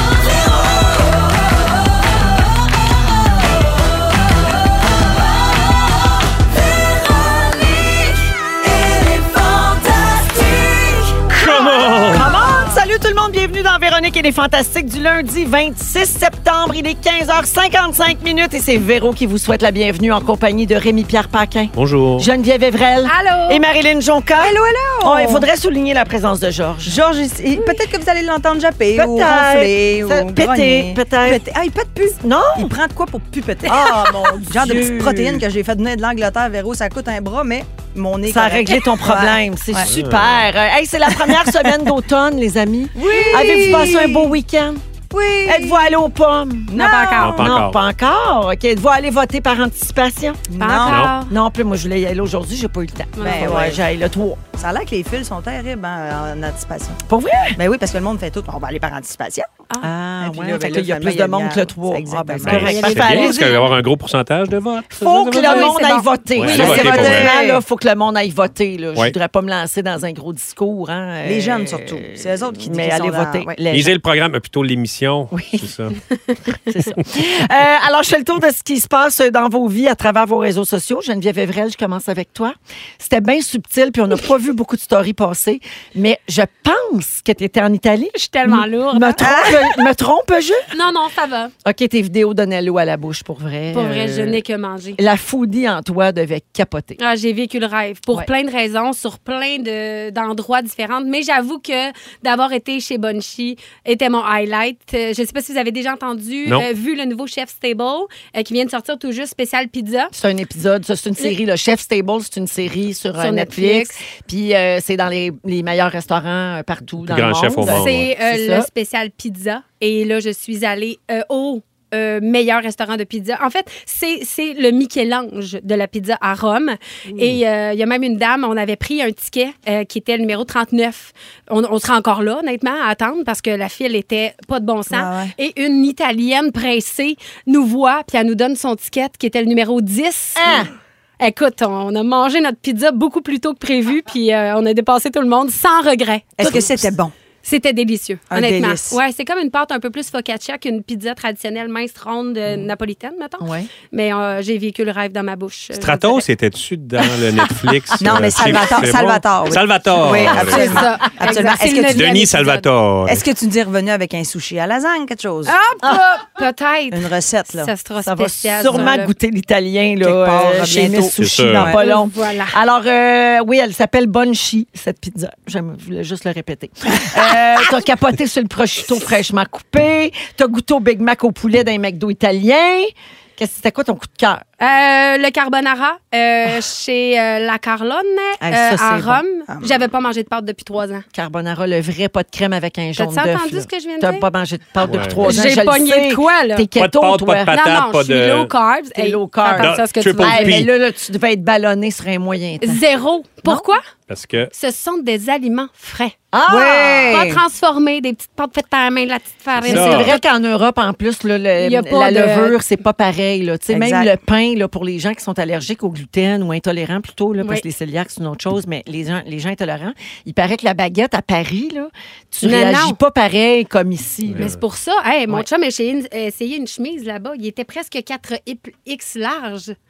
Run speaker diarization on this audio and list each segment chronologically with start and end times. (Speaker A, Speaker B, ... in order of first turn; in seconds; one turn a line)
Speaker A: 6.7-27.0
Speaker B: 11.3-12.3
Speaker B: 21.8-22.3
Speaker C: 23.1-23.6
Speaker D: 24.4-25.5
Speaker D: 26.9-39.9
Speaker A: 28.9-31.4
Speaker A: 32.2-32.8
Speaker A: 33.6-35.5
Speaker A: 38.3-44.8
Speaker B: 39.9-40.5
Speaker D: 41.2-41.5
Speaker D: 43.0-44.3
Speaker D: 45.1-46.0
Speaker A: 45.4-46.8
Speaker D: 46.7-47.4
Speaker C: 46.8-47.6
Speaker B: 47.2-47.8
Speaker A: 47.4-54.4
Speaker D: 50.5-51.1
Speaker C: 50.6-51.3
Speaker B: 50.9-51.1
Speaker C: 53.2-53.6
Speaker D: 53.2-53.8
Speaker D: 54.6-57.0
Speaker A: 57.1-57.6
Speaker D: 57.6-59.5
Speaker A: 59.8-63.7
Speaker D: 60.2-62.9
Speaker B: 62.4-65.8
Speaker C: 62.5-63.7
Speaker A: 64.9-74.0
Speaker C: 65.3-66.1
Speaker B: 66.3-67.3
Speaker D: 66.4-67.6
Speaker D: 71.2-73.6
Speaker B: 73.7-76.0
Speaker A: 75.3-75.7
Speaker A: 76.5-90.7
Speaker C: 88.1-89.5
Speaker D: 89.2-89.8
Speaker C: 90.7-91.5
Speaker A: 91.7-94.4
Speaker C: 93.7-95.0
Speaker A: 95.0-97.0
Speaker C: 97.0-110.1
Speaker A: 110.1-118.7
Speaker C: 113.2-114.0
Speaker B: 117.0-118.1
Speaker C: 117.7-140.7
Speaker D: 134.9-135.3
Speaker A: 140.4-140.7
Speaker C: 141.2-146.7
Speaker D: 146.4-147.1
Speaker C: 147.4-156.2
Speaker D: 148.3-149.0
Speaker A: 153.4-153.7
Speaker B: 155.8-160.9
Speaker D: 158.0-162.1
Speaker A: 160.1-160.3
Speaker C: 160.3-162.7
Speaker B: 161.9-163.3
Speaker D: 163.1-165.6
Speaker C: 165.4-169.2
Speaker D: 166.9-167.7
Speaker A: 168.0-184.4
Speaker D: 170.0-171.8
Speaker B: 171.2-171.8
Speaker C: 171.8-172.6
Speaker C: 184.6-191.1
Speaker A: 188.4-189.2
Speaker D: 189.5-189.8
Speaker A: 191.1-197.5
Speaker C: 193.0-194.3
Speaker B: 194.8-195.4
Speaker C: 195.2-196.7
Speaker B: 196.8-198.5
Speaker C: 197.5-200.7
Speaker A: 198.9-202.8
Speaker B: 199.6-200.7
Speaker C: 202.6-203.8
Speaker B: 204.1-204.5
Speaker C: 204.5-206.2
Speaker A: 206.3-207.2
Speaker D: 206.4-207.4
Speaker C: 207.1-210.2
Speaker B: 209.6-210.2
Speaker A: 209.7-224.6
Speaker C: 211.6-212.6
Speaker D: 213.7-214.1
Speaker C: 217.4-217.7
Speaker C: 222.4-223.0
Speaker B: 224.3-224.6
Speaker C: 224.4-229.8